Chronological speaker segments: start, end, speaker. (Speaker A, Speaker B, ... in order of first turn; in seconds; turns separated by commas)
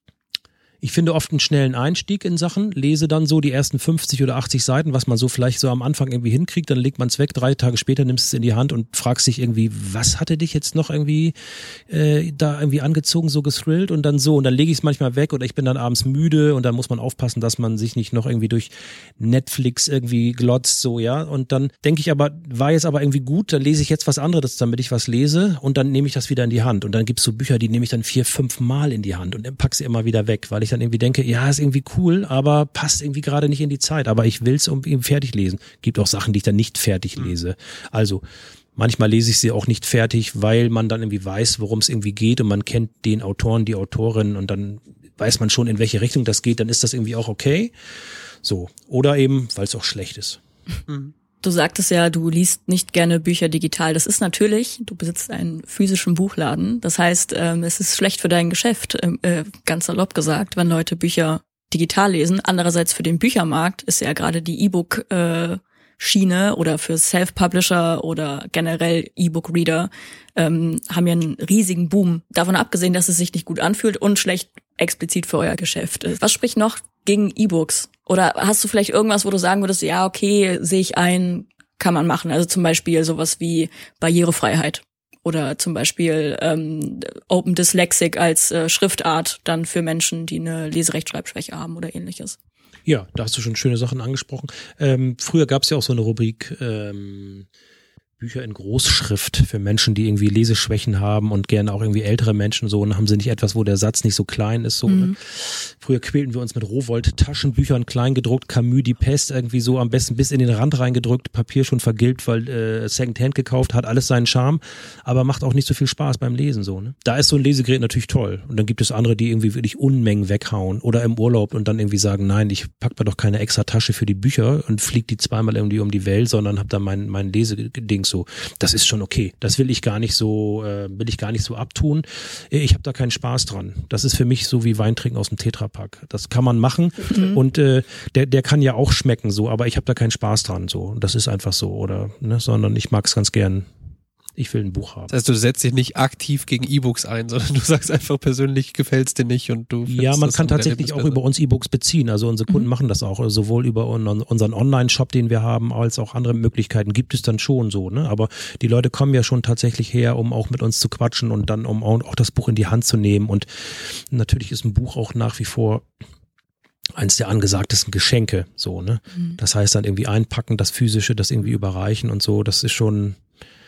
Speaker A: 0.8-11.3, Speaker A: 11.9-38.2, Speaker A: 38.8-47.7, Speaker A: 48.4-50.4, Speaker B: 51.4-92.4, Speaker A: 92.9-97.5, Speaker A: 98.2-143.7, Speaker B: 104.9-105.1, Speaker A: 144.4-145.1, Speaker C: 145.1-151.2, Speaker A: 149.9-165.8, Speaker A: 167.0-173.2